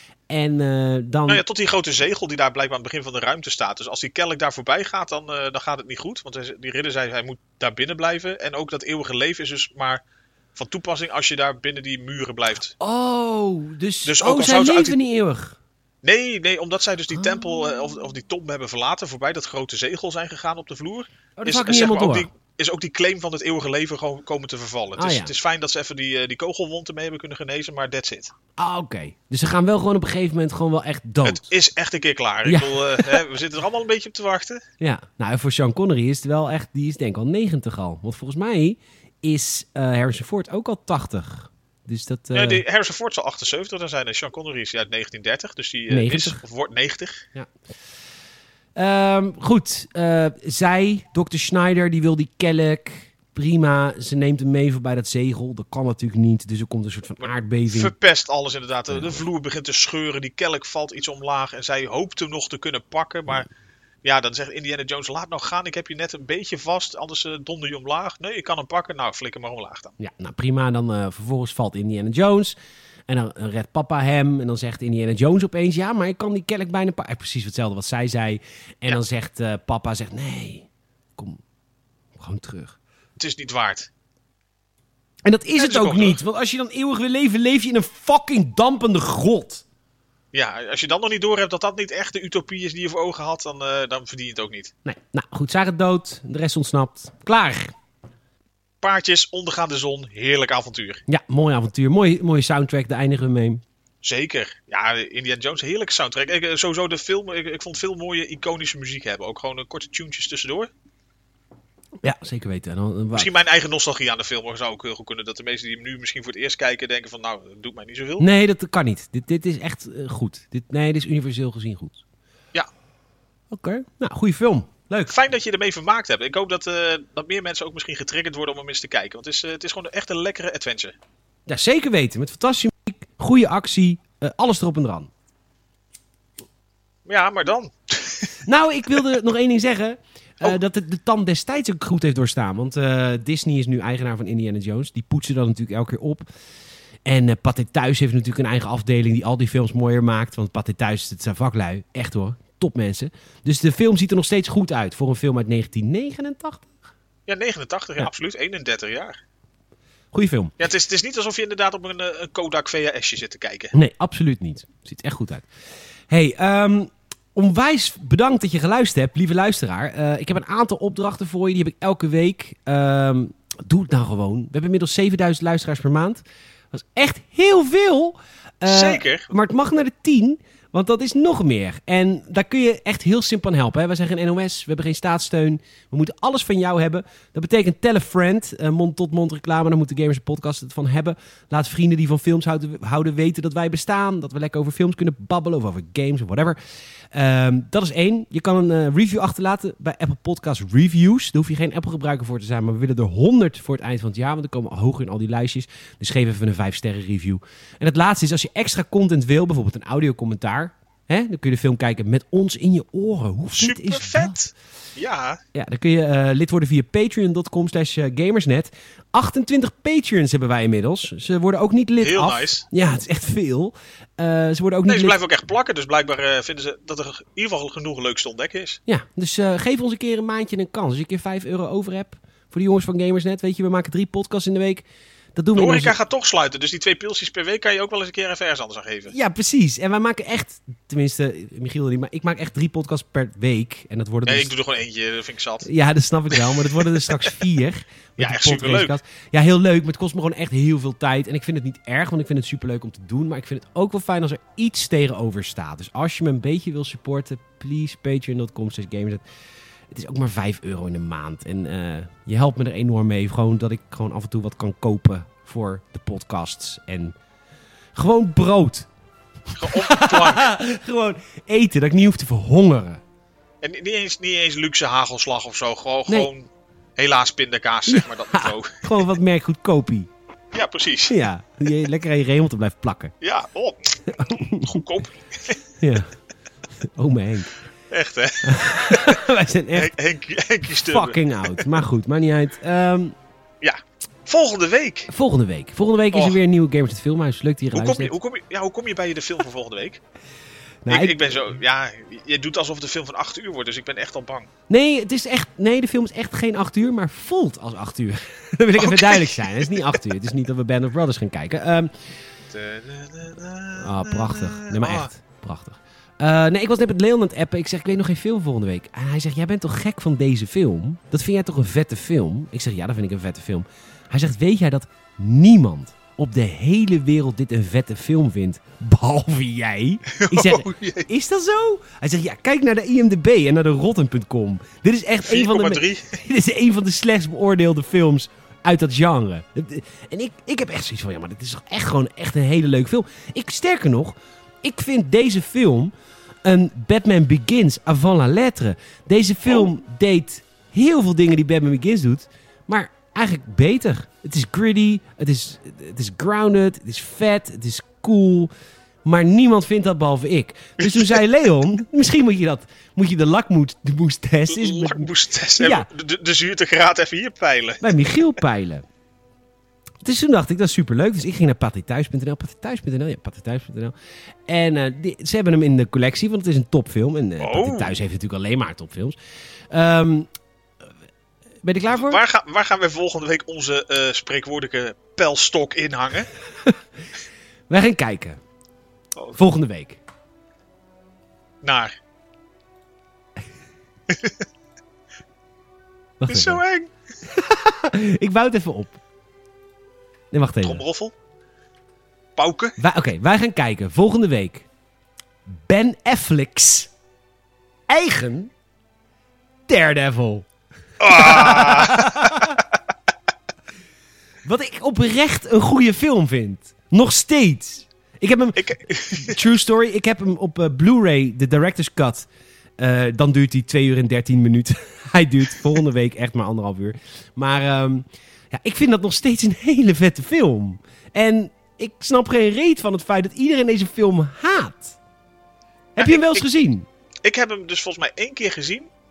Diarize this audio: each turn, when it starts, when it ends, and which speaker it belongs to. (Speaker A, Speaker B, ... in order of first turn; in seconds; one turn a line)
Speaker A: 0.3-1.4
Speaker B: 1.3-10.0
Speaker B: 10.6-12.7
Speaker A: 12.8-15.6
Speaker B: 14.0-14.9
Speaker B: 16.0-28.3
Speaker A: 17.1-17.4
Speaker A: 21.4-22.3
Speaker A: 24.9-25.3
Speaker A: 28.6-31.5
Speaker B: 31.2-34.6
Speaker A: 32.4-33.2
Speaker A: 34.8-42.6
Speaker B: 42.3-47.2
Speaker A: 45.9-46.4
Speaker A: 48.7-57.9
Speaker B: 57.2-63.5
Speaker A: 58.9-59.2
Speaker B: 64.0-69.9
Speaker A: 70.0-72.5
Speaker A: 73.1-81.4
Speaker A: 82.1-82.8
Speaker B: 83.2-83.9
Speaker A: 85.2-89.6
Speaker B: 85.6-86.2
Speaker B: 90.3-94.7
Speaker A: 94.8-97.7
Speaker B: 98.8-101.0
Speaker A: 101.1-103.6
Speaker B: 104.0-110.7
Speaker A: 112.0-113.3
Speaker B: 113.1-118.2
Speaker A: 118.2-122.0
Speaker A: 123.5-125.1
Speaker B: 125.1-130.9
Speaker A: 131.5-135.1
Speaker B: 137.1-138.4
Speaker A: 138.4-146.2
Speaker A: 147.0-156.7
Speaker B: 157.3-159.2
Speaker A: 160.1-160.5
Speaker B: 160.6-163.7
Speaker A: 163.7-165.5
Speaker A: 166.1-196.6
Speaker B: 178.7-179.3
Speaker A: 197.1-214.4
Speaker B: 213.5-215.4
Speaker A: 215.5-225.2
Speaker B: 222.0-222.6
Speaker B: 224.8-228.8
Speaker A: 228.9-235.9
Speaker B: 235.5-239.1
Speaker A: 239.1-244.5
Speaker B: 244.2-245.7
Speaker A: 245.6-259.2
Speaker B: 246.3-247.3
Speaker B: 248.2-248.9
Speaker A: 259.9-267.1
Speaker A: 267.9-268.9
Speaker A: 269.5-273.0
Speaker B: 269.5-270.5
Speaker B: 273.6-279.1
Speaker A: 277.9-280.1
Speaker B: 280.5-281.2
Speaker A: 281.1-283.1
Speaker B: 283.2-285.7
Speaker A: 284.1-284.8
Speaker A: 285.8-286.1
Speaker A: 286.8-287.5
Speaker B: 287.9-291.7
Speaker A: 288.4-289.9
Speaker A: 290.8-293.1
Speaker B: 293.6-295.1
Speaker A: 295.1-298.1
Speaker B: 296.1-296.4
Speaker B: 297.7-300.0
Speaker A: 300.8-301.2
Speaker B: 300.9-304.5
Speaker A: 304.7-311.9
Speaker B: 308.8-310.0
Speaker B: 312.5-315.1
Speaker A: 313.8-358.5
Speaker B: 330.1-331.1
Speaker B: 335.2-336.1
Speaker A: 359.0-365.9
Speaker B: 360.8-361.2
Speaker B: 364.5-367.9
Speaker A: 367.8-368.8
Speaker A: 370.0-373.9
Speaker A: 374.5-379.2
Speaker B: 377.4-378.0
Speaker A: 379.7-380.3
Speaker A: 381.6-382.2
Speaker B: 381.9-386.3
Speaker A: 387.7-388.4
Speaker A: 389.4-390.0
Speaker B: 391.6-391.9
Speaker B: 394.1-394.4
Speaker A: 396.2-396.6
Speaker B: 396.3-396.9
Speaker A: 397.2-399.0
Speaker A: 400.3-400.8
Speaker B: 400.6-401.1
Speaker B: 402.4-402.8
Speaker A: 402.8-404.7
Speaker A: 405.5-406.9
Speaker A: 407.9-408.5
Speaker A: 409.7-410.4
Speaker B: 411.0-412.6
Speaker A: 411.1-412.6
Speaker A: 414.4-435.0
Speaker B: 418.6-419.4
Speaker A: 435.9-436.9
Speaker B: 436.0-436.4
Speaker B: 437.2-438.9